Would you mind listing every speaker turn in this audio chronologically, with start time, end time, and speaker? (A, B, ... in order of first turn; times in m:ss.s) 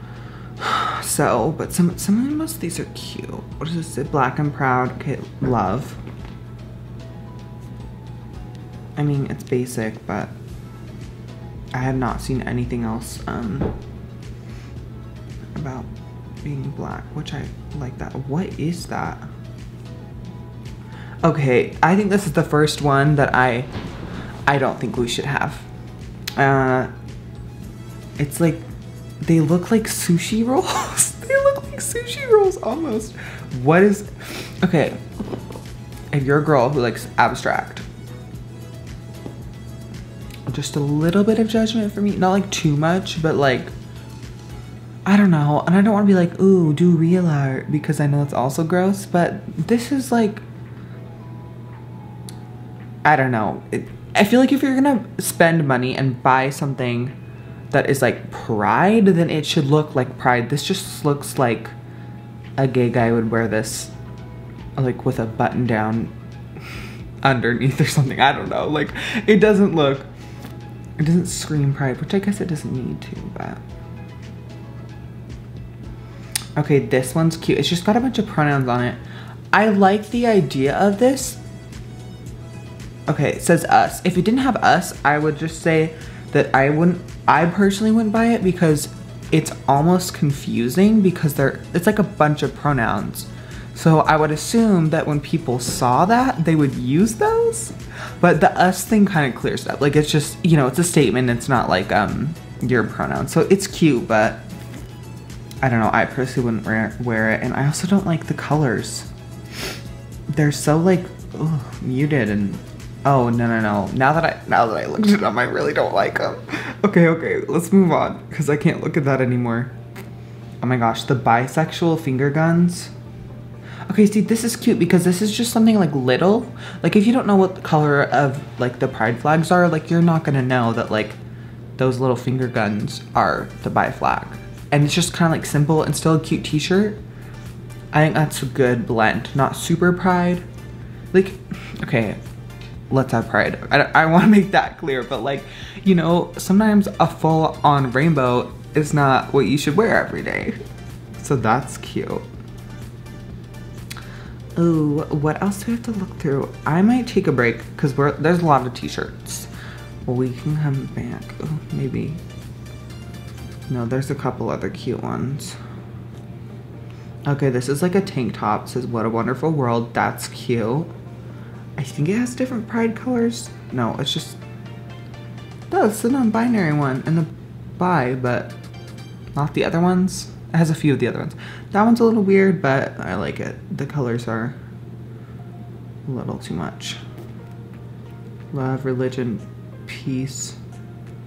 0:00.6-0:06.0 A
0:09.0-0:10.3 A
0:11.7-0:13.8 A
0:15.6-0:15.9 A
0:16.4-0:19.3 A
0:21.2-0:23.7 A
0:24.5-0:25.7 A
0:26.4-0:26.9 A
0:28.2-0:28.7 A
0:29.2-0:35.0 A
0:36.1-0:37.9 A
0:40.5-0:43.7 A
0:45.1-0:50.4 A
0:53.0-0:57.2 A
0:57.7-1:01.7 A
1:02.6-1:03.9 A
1:04.8-1:06.1 A
1:07.2-1:10.1 A
1:11.0-1:13.6 A
1:16.6-1:19.0 A
1:19.5-1:21.4 A
1:23.1-1:44.4 A
1:45.6-1:49.1 A
1:50.3-1:59.8 A
2:00.6-2:02.9 A
2:03.9-2:11.2 A
2:11.8-2:17.0 A
2:17.9-2:20.4 A
2:21.1-2:22.2 A
2:22.9-2:30.6 A
2:31.2-2:32.3 A
2:34.6-2:39.5 A
2:40.0-2:42.2 A
2:43.7-2:45.6 A
2:47.3-2:50.9 A
2:51.8-2:54.4 A
2:55.7-2:58.6 A
2:59.3-3:04.6 A
3:06.1-3:07.0 A
3:08.5-3:10.6 A